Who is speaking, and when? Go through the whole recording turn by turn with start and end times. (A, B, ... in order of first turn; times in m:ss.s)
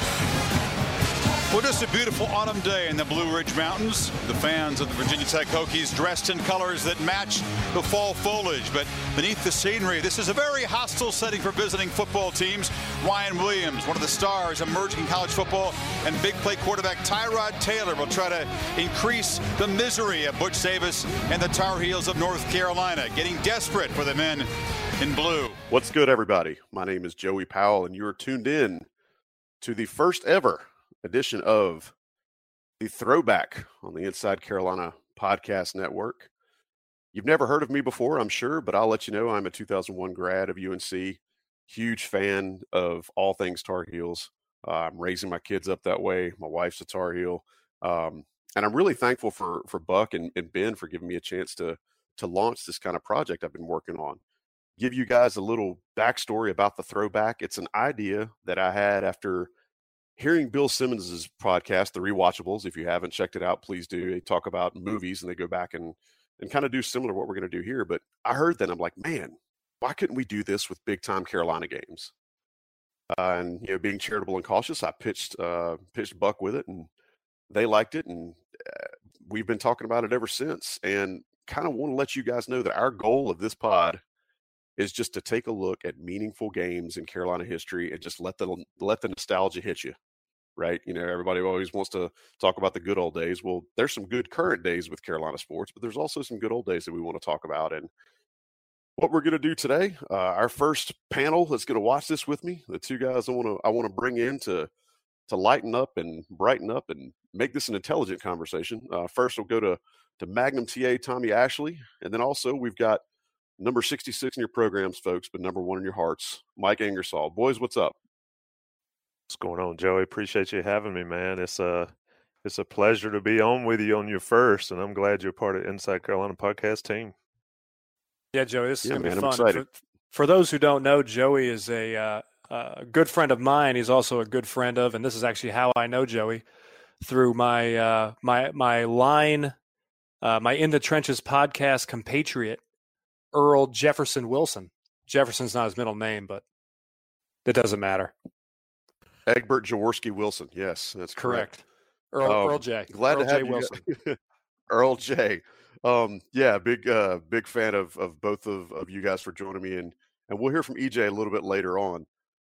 0:01.5-0:24.5 A
0:25.0-0:25.6 A
0:25.7-0:28.9 B
0:29.6-0:31.9 B
0:32.8-0:36.3 B
0:37.1-0:54.2 B
0:54.8-0:59.5 B
1:00.2-1:12.1 B
1:13.1-1:16.9 B
1:17.5-1:24.0 B
1:24.8-1:30.0 B
1:30.6-1:37.9 B
1:39.0-1:44.7 B
1:45.3-1:53.0 B
1:53.6-1:57.9 B
1:59.3-2:01.9 C
2:02.4-2:07.1 C
2:08.3-2:16.4 D
2:08.8-2:09.6 B
2:17.0-2:19.5 D
2:20.2-2:22.6 D
2:23.3-2:26.4 D
2:27.4-2:28.1 D
2:29.2-2:31.5 B
2:31.2-2:33.8 D
2:32.2-2:34.2 B
2:34.7-2:42.1 B